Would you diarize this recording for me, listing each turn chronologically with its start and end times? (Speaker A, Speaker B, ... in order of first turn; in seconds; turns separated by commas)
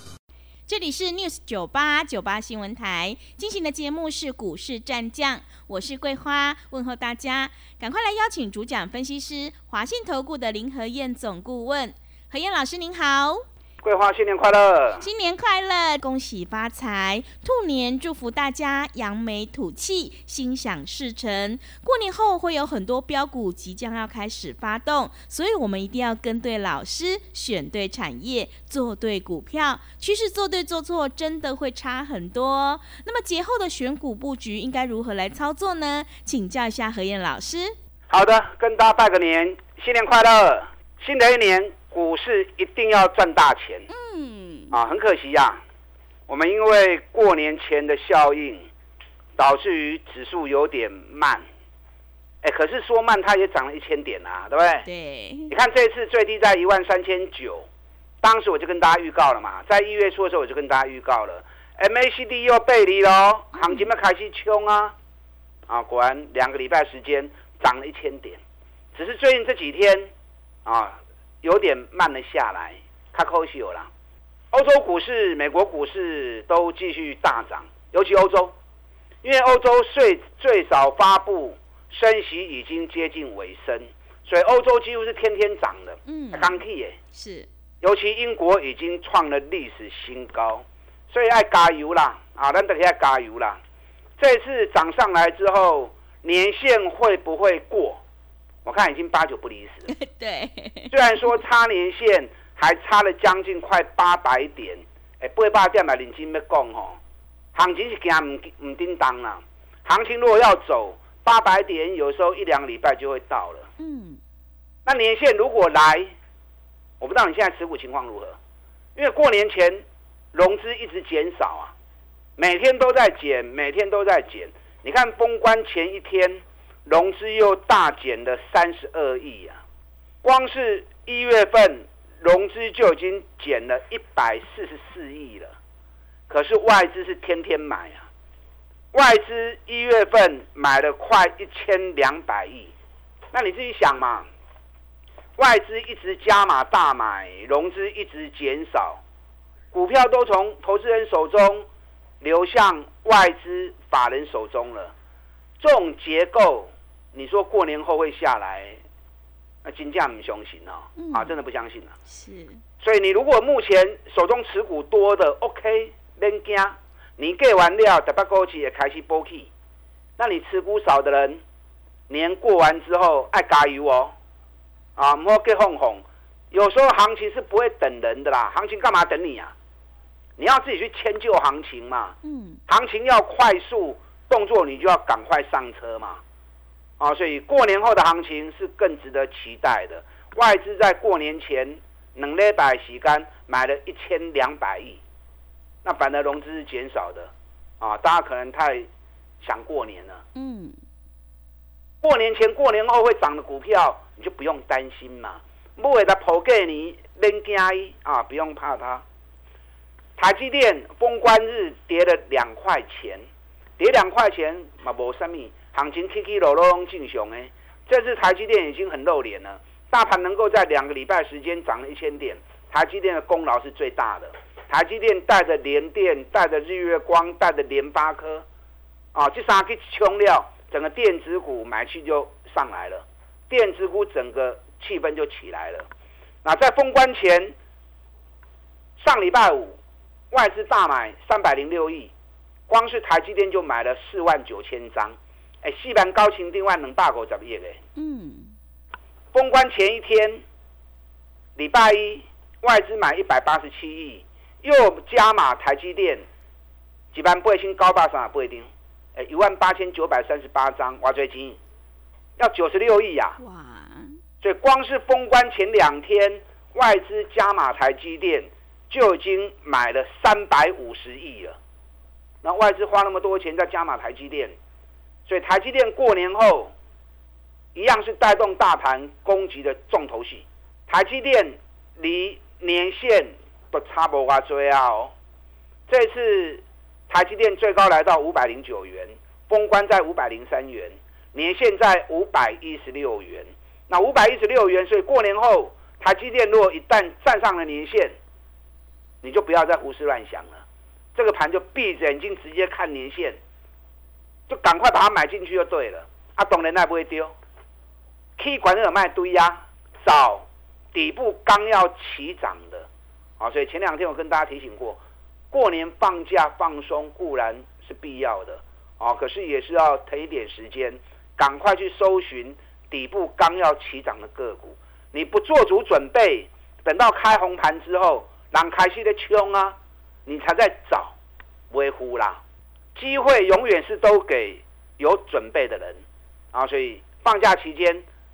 Speaker A: 0.7-13.4, Speaker B: 13.8-15.1, Speaker A: 15.0-37.7, Speaker B: 38.1-43.9, Speaker A: 43.9-44.7, Speaker B: 44.7-45.6, Speaker B: 46.3-48.6, Speaker B: 49.4-51.4, Speaker B: 52.4-54.8, Speaker A: 54.8-55.5, Speaker B: 55.5-57.7, Speaker B: 58.2-64.9, Speaker A: 63.6-63.9, Speaker B: 65.7-68.4, Speaker B: 68.9-70.1, Speaker B: 70.6-73.9, Speaker B: 74.5-78.5, Speaker B: 79.2-87.0, Speaker A: 86.0-86.5, Speaker A: 87.1-87.5, Speaker B: 87.8-93.6, Speaker B: 94.2-98.0, Speaker B: 98.6-99.9, Speaker A: 99.9-100.9, Speaker B: 100.9-107.0, Speaker B: 107.5-113.7, Speaker A: 113.8-114.2, Speaker B: 114.8-116.1, Speaker B: 117.0-118.3, Speaker B: 119.0-121.7, Speaker B: 122.4-129.6, Speaker B: 130.2-135.5, Speaker B: 136.3-138.1, Speaker B: 138.9-142.7, Speaker B: 143.3-144.3, Speaker B: 145.4-149.0, Speaker B: 149.7-151.7, Speaker B: 152.2-154.9, Speaker B: 155.6-158.8, Speaker B: 159.6-161.9, Speaker A: 161.0-161.3, Speaker A: 162.1-162.6, Speaker B: 162.8-169.5, Speaker B: 170.2-171.4, Speaker B: 172.1-174.1, Speaker B: 175.0-179.5, Speaker B: 180.4-182.2, Speaker A: 182.2-182.6, Speaker B: 182.7-186.2, Speaker B: 187.0-195.0, Speaker B: 195.8-198.9, Speaker B: 199.4-200.2, Speaker A: 200.3-200.7, Speaker B: 202.0-209.0, Speaker B: 210.2-213.2, Speaker B: 213.8-228.4, Speaker B: 229.1-235.9, Speaker B: 236.4-237.5, Speaker B: 239.0-239.8, Speaker B: 240.3-242.1, Speaker B: 242.7-247.8, Speaker A: 248.0-248.5, Speaker B: 249.3-250.4, Speaker B: 251.6-256.2, Speaker B: 257.1-261.6, Speaker B: 262.4-263.4, Speaker A: 263.4-264.1, Speaker B: 264.4-271.6, Speaker B: 272.4-274.5, Speaker B: 275.3-276.7, Speaker B: 277.7-285.1, Speaker B: 285.9-298.1, Speaker B: 299.2-300.6, Speaker B: 301.1-303.4, Speaker B: 304.5-307.3, Speaker B: 308.4-312.9, Speaker B: 313.4-315.0, Speaker B: 315.5-331.1, Speaker B: 331.7-332.4, Speaker B: 332.9-336.0, Speaker B: 336.5-338.0